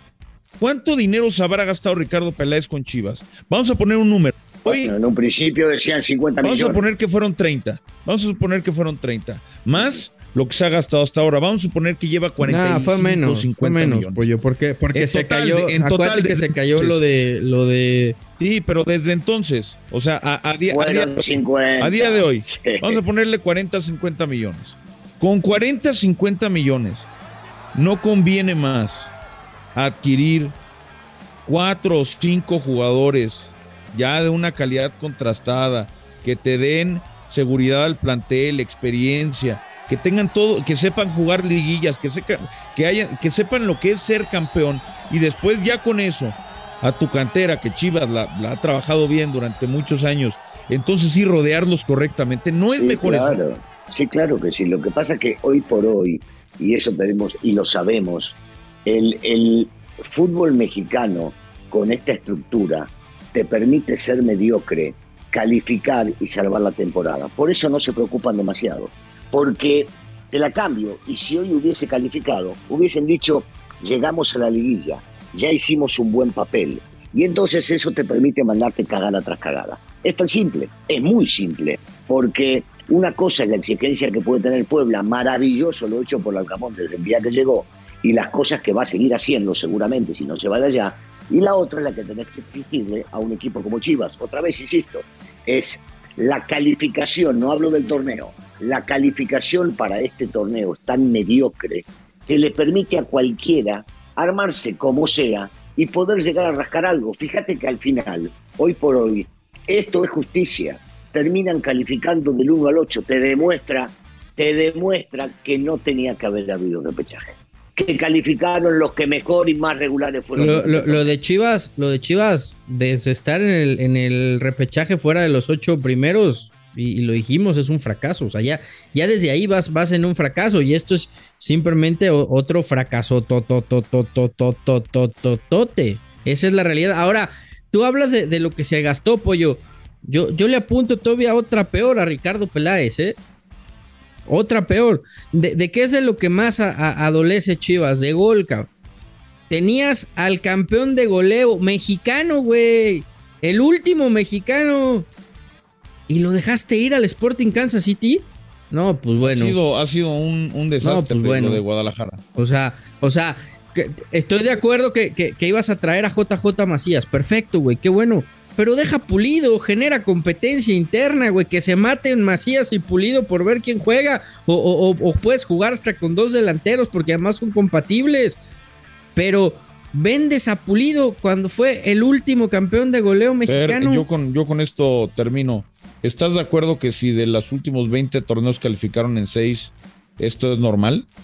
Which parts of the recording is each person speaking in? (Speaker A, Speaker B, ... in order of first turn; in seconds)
Speaker A: 0.6-4.9, 6.4-14.3, 14.9-17.0, 18.4-27.1, 27.7-29.1, 29.7-30.5, 31.4-53.4, 159.2-162.2, 183.5-191.1
Speaker B: 4.7-6.8, 20.7-23.0, 52.7-121.0
Speaker C: 12.4-18.2, 120.3-143.2, 144.3-148.7, 149.5-155.1, 156.1-159.5, 160.8-161.6, 162.3-178.4, 179.2-184.1